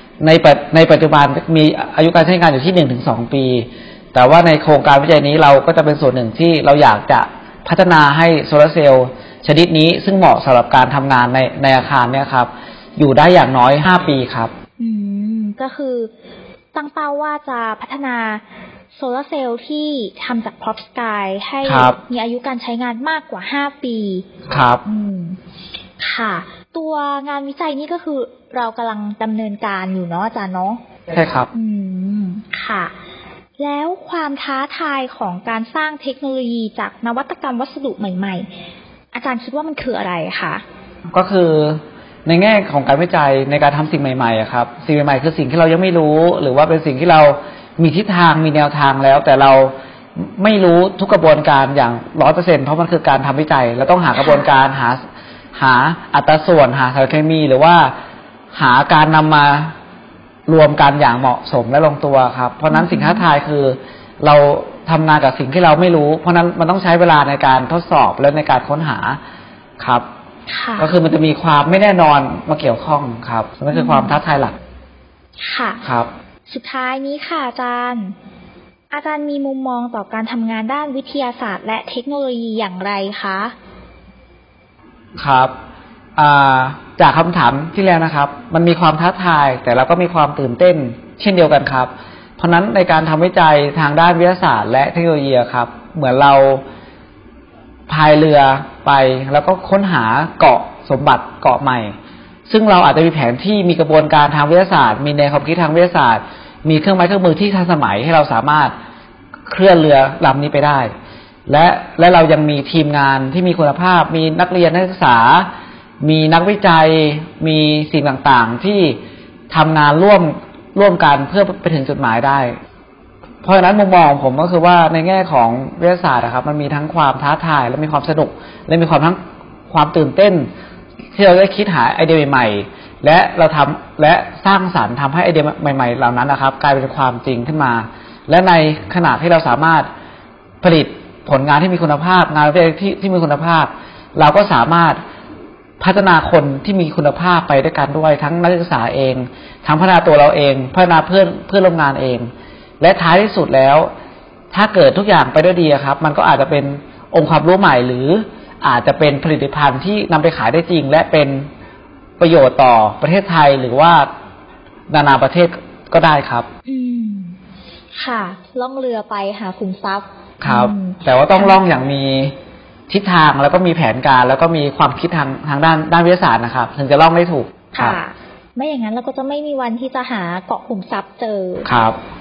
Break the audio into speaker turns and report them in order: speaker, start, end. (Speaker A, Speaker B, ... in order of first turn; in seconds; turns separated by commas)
Speaker A: 0.2-14.5, Speaker B: 14.8-16.1, Speaker B: 16.7-18.4, Speaker B: 18.9-24.3, Speaker A: 21.6-22.0, Speaker A: 24.5-24.8, Speaker B: 24.8-25.4, Speaker B: 26.0-30.8, Speaker A: 31.1-31.5, Speaker B: 31.5-32.9, Speaker B: 33.6-38.5, Speaker B: 39.1-40.6, Speaker A: 41.1-55.0, Speaker B: 54.2-54.5, Speaker A: 55.5-57.9, Speaker A: 58.5-59.7, Speaker A: 60.5-69.2, Speaker B: 62.7-63.2, Speaker A: 69.8-70.0, Speaker B: 70.5-70.9, Speaker A: 70.8-74.5, Speaker B: 73.7-74.2, Speaker B: 75.4-75.8, Speaker B: 76.5-78.1, Speaker B: 78.9-83.5, Speaker A: 85.2-85.5, Speaker A: 86.2-96.6, Speaker A: 97.9-101.9, Speaker A: 102.5-108.7, Speaker A: 109.5-110.9, Speaker A: 111.5-115.5, Speaker A: 116.0-119.0, Speaker A: 119.5-122.5, Speaker A: 123.4-130.5, Speaker A: 131.1-139.9, Speaker A: 140.6-145.0, Speaker A: 145.8-153.9, Speaker A: 154.5-161.5, Speaker A: 162.2-164.1, Speaker A: 164.9-166.5, Speaker B: 166.7-167.3, Speaker B: 167.9-171.6, Speaker A: 170.4-172.3, Speaker A: 172.9-178.0, Speaker B: 177.7-181.7, Speaker A: 181.7-182.0